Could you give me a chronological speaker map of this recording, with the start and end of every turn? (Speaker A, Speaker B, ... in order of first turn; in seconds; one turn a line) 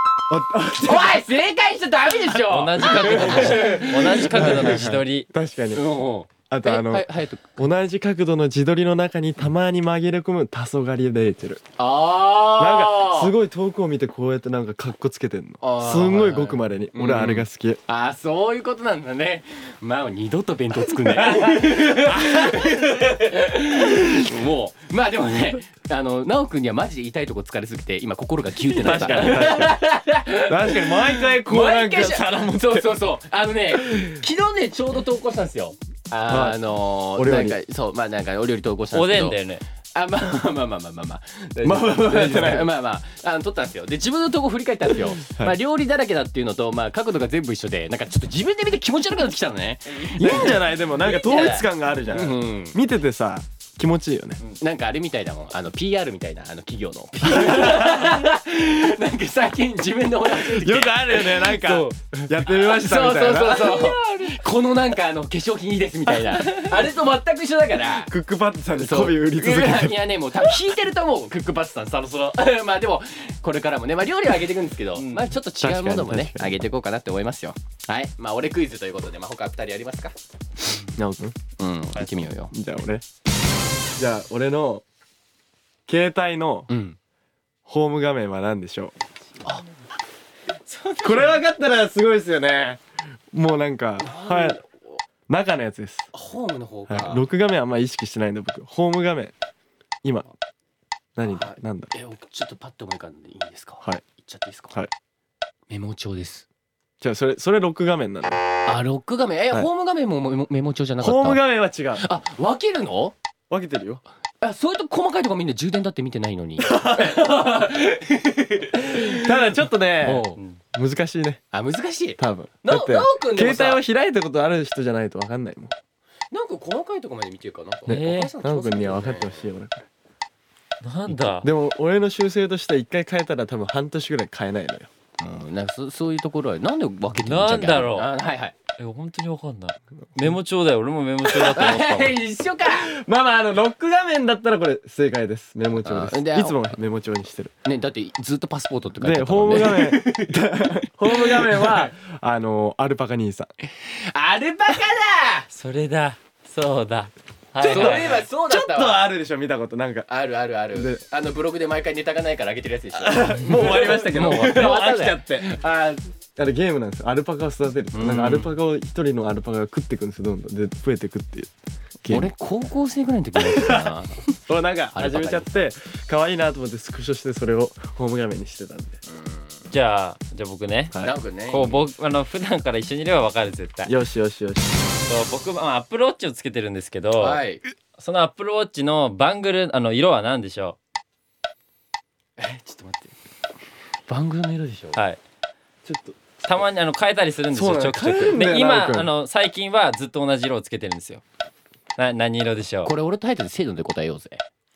Speaker A: 0.3-1.2
Speaker B: 0.8-4.8
Speaker C: 2.4-5.3
Speaker A: 2.8-5.8
Speaker B: 5.7-7.5
Speaker A: 6.5-11.6
Speaker B: 11.8-13.3
Speaker A: 12.6-17.8
Speaker B: 15.6-39.4
Speaker A: 21.4-22.3
Speaker A: 23.9-24.3
Speaker A: 28.8-32.9
Speaker A: 33.8-34.1
Speaker A: 36.3-36.6
Speaker A: 37.1-37.6
Speaker C: 38.9-39.6
Speaker B: 39.9-50.6
Speaker A: 41.6-42.7
Speaker C: 50.0-51.6
Speaker A: 50.1-54.4
Speaker B: 52.1-52.8
Speaker B: 54.6-61.6
Speaker A: 57.2-58.1
Speaker A: 60.3-63.8
Speaker C: 61.6-62.0
Speaker B: 62.5-68.1
Speaker C: 63.6-64.4
Speaker A: 68.1-70.4
Speaker B: 68.8-80.1
Speaker C: 75.0-75.3
Speaker A: 75.6-76.6
Speaker A: 80.9-81.3
Speaker B: 81.6-82.5
Speaker A: 82.5-83.0
Speaker A: 84.0-84.8
Speaker A: 85.9-86.7
Speaker B: 86.7-87.0
Speaker A: 87.7-88.9
Speaker C: 90.7-91.3
Speaker A: 91.0-92.8
Speaker A: 93.3-94.6
Speaker B: 94.0-95.0
Speaker A: 95.3-96.1
Speaker B: 96.1-97.2
Speaker A: 96.9-99.3
Speaker A: 101.2-101.9
Speaker B: 101.2-104.8
Speaker B: 105.7-106.5
Speaker A: 107.0-108.4
Speaker B: 108.7-111.4
Speaker A: 111.0-112.0
Speaker B: 112.0-113.1
Speaker A: 113.5-114.0
Speaker B: 114.4-120.4
Speaker A: 116.6-117.2
Speaker A: 118.9-121.4
Speaker B: 121.5-123.8
Speaker A: 122.2-125.7
Speaker B: 126.3-129.5
Speaker C: 127.8-128.3
Speaker A: 127.9-129.9
Speaker C: 130.8-131.5
Speaker A: 131.1-134.9
Speaker B: 135.2-138.6
Speaker C: 137.2-138.1
Speaker C: 138.8-142.2
Speaker B: 141.3-142.9
Speaker A: 142.7-147.5
Speaker B: 145.8-146.6
Speaker B: 147.7-150.4
Speaker A: 149.0-153.5
Speaker B: 151.0-151.9
Speaker B: 153.8-155.5
Speaker C: 155.5-158.2
Speaker A: 157.6-160.1
Speaker B: 157.6-159.1
Speaker B: 160.1-166.0
Speaker A: 160.7-161.0
Speaker A: 162.9-165.6
Speaker A: 166.4-171.5
Speaker B: 167.9-168.5
Speaker A: 172.0-172.3
Speaker B: 172.1-174.3
Speaker A: 173.4-173.9
Speaker A: 174.5-179.0
Speaker B: 174.9-175.5
Speaker B: 179.1-179.7
Speaker C: 179.7-183.9
Speaker B: 181.0-181.8
Speaker A: 183.8-184.8
Speaker C: 185.1-187.4
Speaker B: 187.2-187.6
Speaker C: 188.0-190.8
Speaker B: 192.4-193.1
Speaker B: 194.1-195.0
Speaker C: 194.9-195.2
Speaker A: 195.8-196.2
Speaker C: 196.4-201.2
Speaker A: 197.5-199.1
Speaker C: 202.0-202.9
Speaker B: 202.8-204.4